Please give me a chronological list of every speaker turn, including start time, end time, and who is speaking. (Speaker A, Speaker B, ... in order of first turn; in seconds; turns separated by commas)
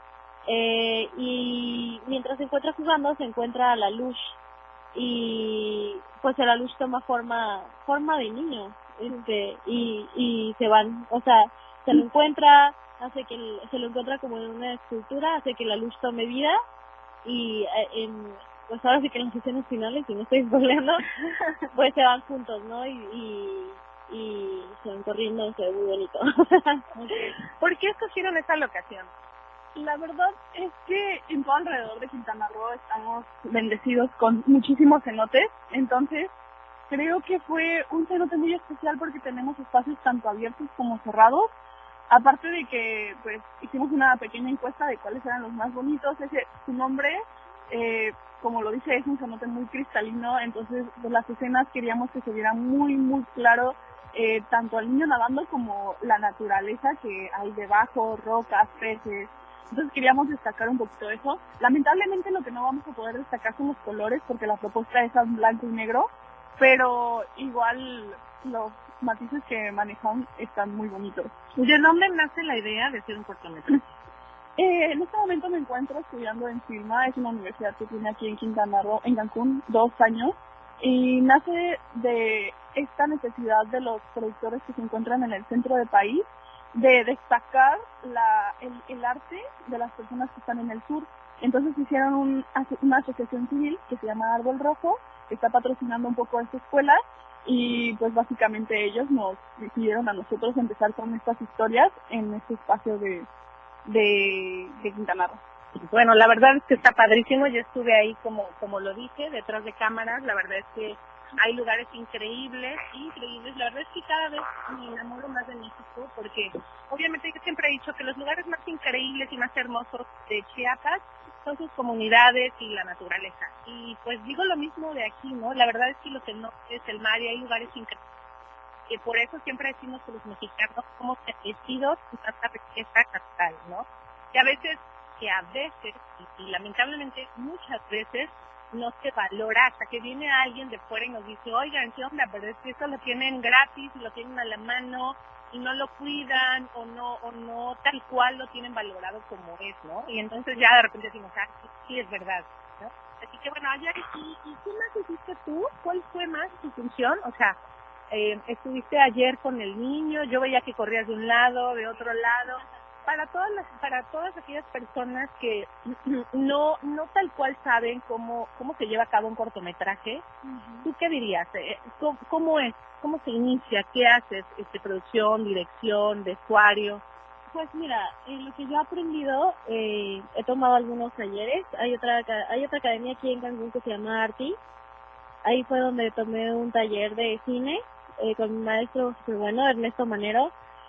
Speaker A: 0.5-4.4, Speaker A: 4.9-16.6, Speaker A: 17.2-21.1, Speaker A: 21.7-26.8, Speaker B: 26.9-29.1, Speaker C: 29.8-36.3, Speaker C: 36.9-41.5, Speaker C: 42.1-71.3, Speaker B: 71.5-73.8, Speaker C: 74.6-103.3, Speaker C: 103.9-105.4, Speaker B: 105.8-128.0, Speaker B: 128.9-157.6, Speaker B: 158.1-170.2, Speaker A: 170.5-170.8, Speaker B: 170.8-177.0, Speaker A: 177.5-184.6, Speaker A: 185.4-190.5